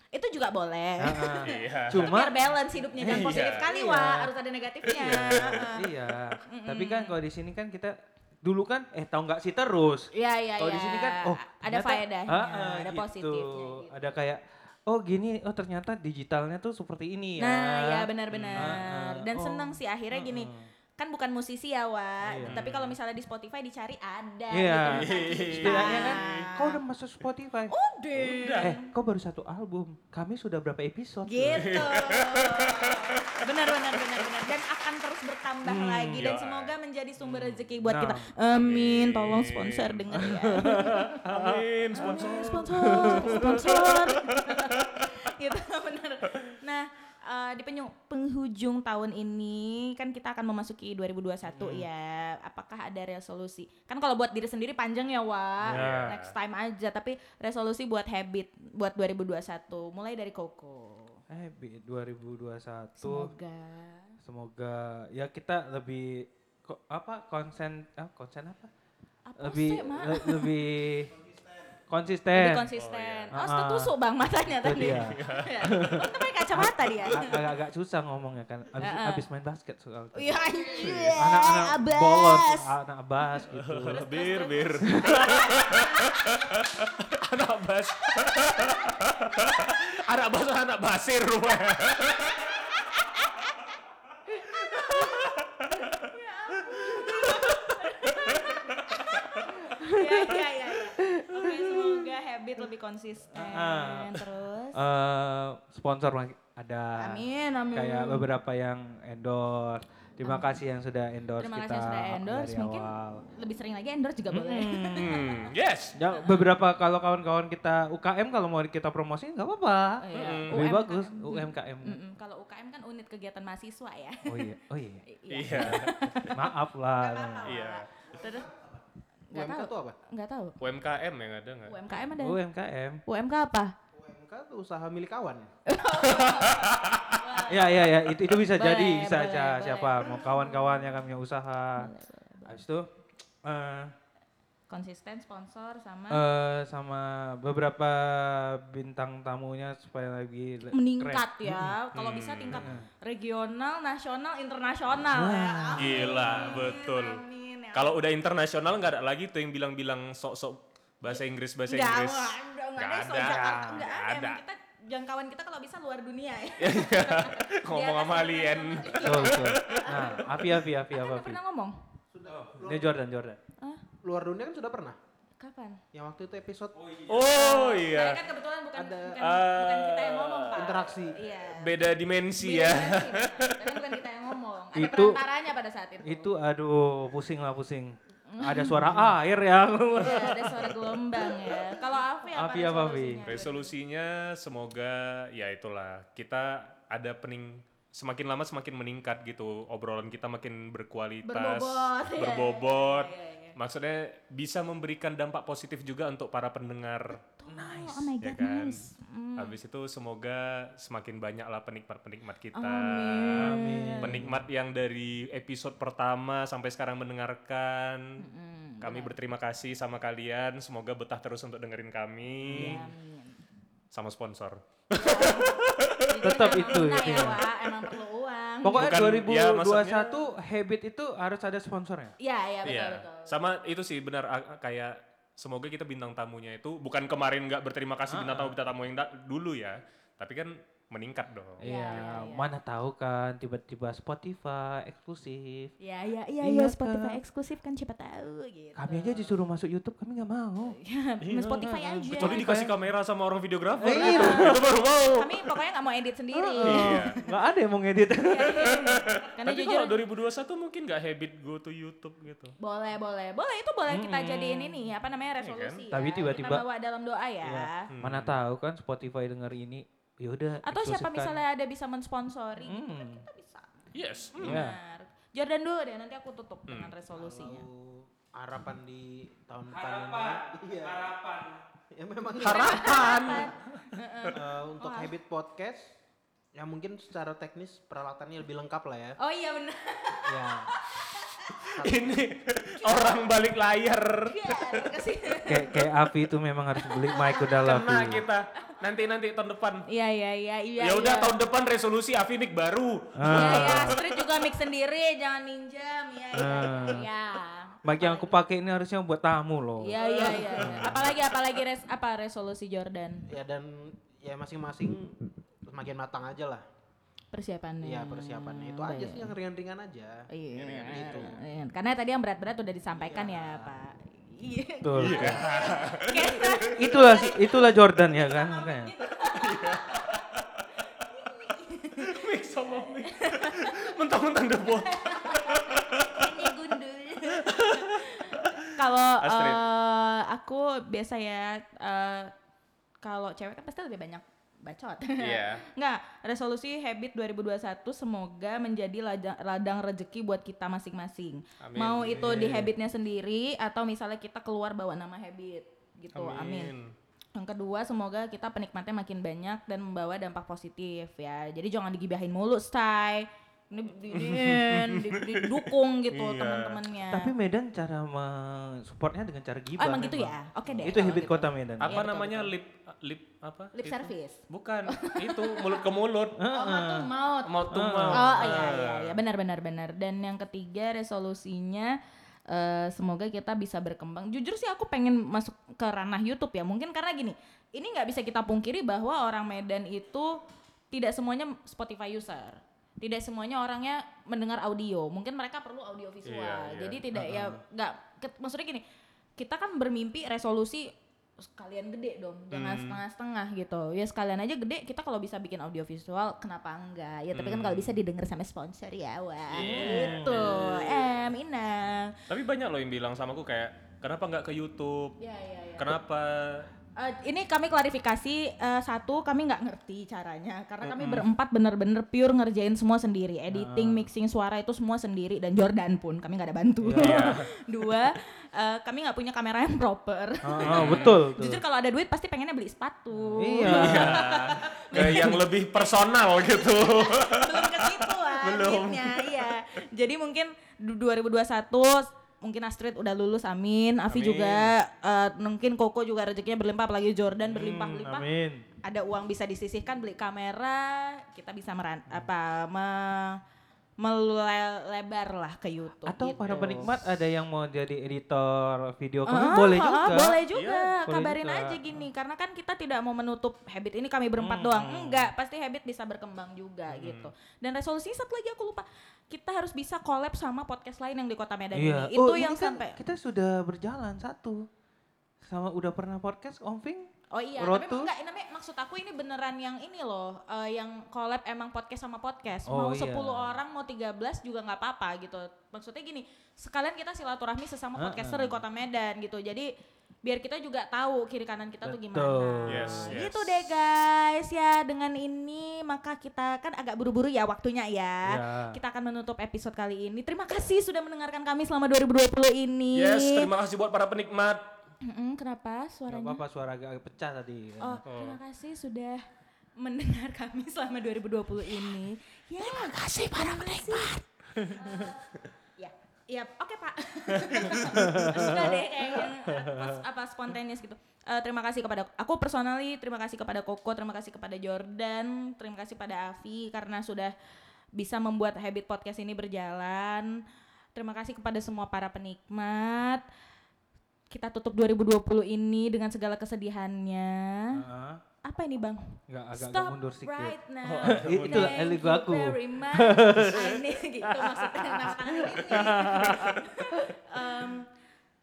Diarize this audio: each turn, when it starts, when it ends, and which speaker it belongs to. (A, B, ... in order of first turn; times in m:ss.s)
0:00.1-0:05.9 A
0:01.0-0:02.4 B
0:01.4-0:02.3 C
0:02.9-0:04.3 B
0:03.0-0:03.7 C
0:04.9-0:20.7 B
0:04.9-0:05.7 C
0:06.4-0:07.2 A
0:10.1-0:13.9 A
0:17.4-0:26.7 A
0:18.3-0:18.8 C
0:22.2-0:22.6 B
0:22.5-0:23.0 C
0:24.5-0:27.7 B
0:24.9-0:26.6 C
0:27.7-0:28.9 A
0:28.2-0:28.8 C
0:28.6-0:32.0 B
0:31.3-0:41.2 A
0:31.6-0:34.0 C
0:35.7-0:36.2 B
0:35.7-0:37.7 C
0:37.8-0:38.3 B
0:38.5-0:45.1 C
0:40.2-0:43.8 B
0:41.9-1:01.2 A
0:51.5-0:51.9 B
0:55.6-0:56.2 B
0:55.7-0:56.3 C
1:01.3-1:03.3 B
1:03.0-1:04.2 A
1:04.2-1:08.7 B
1:09.2-1:10.6 A
1:09.4-1:11.2 B
1:11.9-1:12.7 B
1:12.3-1:17.6 A
1:12.7-1:13.3 C
1:13.3-1:24.0 B
1:14.8-1:15.7 C
1:18.8-1:19.2 A
1:20.2-1:22.7 A
1:20.8-1:21.2 C
1:23.4-1:26.4 A
1:23.5-1:32.9 C
1:24.9-1:25.5 B
1:28.1-1:29.0 A
1:32.4-1:33.8 A
1:34.4-1:44.8 A
1:34.5-1:39.6 C
1:39.6-1:41.9 B
1:43.3-1:53.3 B
1:47.0-1:48.3 A
1:50.2-1:50.5 A
1:51.4-1:55.5 A
1:54.3-1:55.2 B
1:54.8-1:56.0 C
1:56.0-2:02.0 B
1:56.2-1:56.5 A
2:00.0-2:08.5 A
2:00.1-2:00.7 C
2:04.3-2:07.5 B
2:05.3-2:06.4 C
2:07.4-2:07.9 C
2:08.0-2:10.0 D
2:09.3-2:10.6 A
2:10.6-2:11.8 C
2:11.7-2:12.4 A
2:12.2-2:13.0 B
2:13.1-2:13.7 A
2:13.9-2:15.5 D
2:15.7-2:21.1 A
2:16.0-2:17.2 C
2:17.5-2:21.9 B
2:21.8-2:22.6 A
2:22.4-2:22.9 B
2:23.4-2:23.9 B
2:24.7-2:26.2 A
2:26.1-2:31.8 B
2:30.7-2:38.0 A
2:31.9-2:32.7 C
2:32.5-2:32.9 B
2:35.1-2:36.8 B
2:35.8-2:37.2 C
2:37.7-2:44.4 C
2:41.1-2:51.8 A
2:46.6-2:50.3 C
2:49.0-2:51.4 B
2:52.1-2:53.0 D
2:52.3-2:53.4 B
2:54.0-2:55.0 D
2:55.4-2:55.8 A
2:55.9-2:57.0 D
2:56.8-2:57.2 B
2:57.1-2:58.2 C
2:57.2-3:01.8 A
2:58.8-2:59.2 D
2:59.2-3:00.8 C
3:00.5-3:01.2 D
3:01.5-3:03.7 C
3:02.4-3:06.3 A
3:04.7-3:05.2 B
3:06.0-3:13.3 B
3:08.3-3:09.2 A
3:10.0-3:13.7 A
3:13.3-3:27.2 C
3:21.2-3:23.6 A
3:27.2-3:29.5 A
3:27.5-3:28.1 B
3:28.2-3:38.2 C
3:32.5-3:34.2 A
3:33.4-3:34.4 B
3:38.2-3:39.2 A
3:38.8-3:42.9 C
3:42.4-3:42.9 B
3:42.6-3:43.4 A
3:43.9-3:47.3 C
3:44.9-3:49.1 A
3:46.2-3:47.4 B
3:48.6-3:52.2 B
3:48.7-3:50.2 C
3:52.2-3:53.4 A
3:52.6-4:01.7 C
3:58.1-3:58.6 B
4:01.6-4:05.7 B
4:01.6-4:02.5 A
4:05.8-4:09.3 A
4:06.4-4:07.2 B
4:08.8-4:10.8 B
4:10.7-4:12.5 A
4:11.2-4:15.5 C
4:11.6-4:12.7 B
4:13.8-4:14.7 B
4:13.9-4:17.1 A
4:16.3-4:18.8 B
4:16.6-4:17.2 C
4:18.2-4:20.0 A
4:18.5-4:22.6 C
4:22.6-4:27.9 A
4:23.9-4:24.8 B
4:25.4-4:25.8 C
4:25.9-4:26.7 B
4:27.4-4:31.4 B
4:27.9-4:28.4 C
4:30.6-4:33.8 A
4:32.6-4:33.2 B
4:33.9-4:34.6 C
4:34.4-4:37.7 A
4:34.4-4:34.8 B
4:37.1-4:41.0 D
4:39.7-4:41.6 B
4:41.9-4:43.3 D
4:42.4-4:43.9 C
4:42.4-4:45.1 A
4:44.3-4:46.0 D
4:46.5-4:49.2 D
4:49.2-4:51.7 A
4:50.3-4:50.6 B
4:50.4-4:50.6 D
4:51.6-4:54.9 C
4:51.7-4:52.2 D
4:52.8-4:53.3 A
4:54.3-4:56.1 A
4:55.5-4:58.3 B
4:56.8-4:57.5 A
4:57.5-4:59.9 C
4:59.9-5:01.4 A
5:00.8-5:04.2 C
5:03.2-5:04.0 B
5:03.3-5:08.4 A
5:06.3-5:07.1 B
5:07.8-5:11.2 B
5:09.8-5:13.3 A
5:10.0-5:10.8 D
5:10.7-5:11.1 C
5:13.3-5:16.6 D
5:17.3-5:19.3 A
5:17.8-5:21.4 D
5:20.3-5:30.3 A
5:20.7-5:21.3 C
5:22.9-5:23.8 D
5:24.8-5:25.4 B
5:25.0-5:27.1 C
5:26.5-5:28.9 B
5:29.3-5:30.6 C
5:30.8-5:33.9 A
5:32.0-5:36.5 C
5:34.6-5:42.3 A
5:37.3-5:38.6 C
5:39.2-5:39.6 C
5:43.0-5:56.7 A
5:45.2-5:45.6 C
5:51.6-5:52.7 C
5:56.2-5:56.9 C
5:57.4-6:07.3 A
6:04.1-6:06.8 C
6:07.1-6:12.1 B
6:09.8-6:12.5 A
6:10.8-6:16.4 C
6:13.7-6:15.8 A
6:16.4-6:17.1 B
6:16.5-6:22.0 A
6:17.4-6:19.2 C
6:17.7-6:18.6 B
6:22.5-6:30.4 A
6:30.9-6:38.8 A
6:36.2-6:37.0 C
6:37.1-6:37.6 B
6:39.4-6:52.2 A
6:42.5-6:43.0 C
6:47.3-6:48.0 C
6:49.5-6:51.2 C
6:49.8-6:50.5 B
6:52.3-6:55.2 C
6:55.2-6:56.0 A
6:55.8-6:56.7 C
6:57.0-7:28.3 A
7:00.8-7:01.2 C
7:03.5-7:04.1 B
7:06.8-7:07.4 B
7:07.0-7:07.5 C
7:10.4-7:11.6 B
7:10.6-7:11.2 C
7:13.2-7:14.2 B
7:13.6-7:19.6 C
7:15.0-7:15.3 B
7:24.1-7:24.7 C
7:27.5-7:28.6 B
7:28.8-7:33.4 A
7:34.0-7:36.9 A
7:36.1-7:40.4 B
7:36.4-7:36.9 C
7:39.3-7:53.0 A
7:40.5-7:40.9 C
7:41.0-7:42.0 B
7:44.4-7:45.3 B
7:46.9-7:47.3 C
7:51.7-7:54.7 B
7:55.4-7:58.1 B
7:57.3-8:09.7 A
8:02.7-8:03.6 B
8:08.0-8:08.6 B
8:10.2-8:23.5 A
8:11.8-8:13.2 B
8:12.7-8:13.7 C
8:18.3-8:18.8 B
8:23.0-8:24.7 C
8:25.0-8:26.4 A
8:26.1-8:28.0 B
8:27.8-8:29.2 A
8:28.1-8:28.4 C
8:29.8-8:35.2 A
8:32.6-8:34.2 C
8:34.6-8:35.1 B
8:35.8-8:47.3 A
8:37.4-8:38.0 C
8:37.8-8:40.0 B
8:48.0-8:50.4 A
8:51.0-8:53.2 A
8:54.3-8:57.8 A
8:57.7-8:58.2 B
8:58.4-9:07.9 A
8:59.3-9:07.0 B
9:00.8-9:01.8 C
9:06.0-9:06.5 C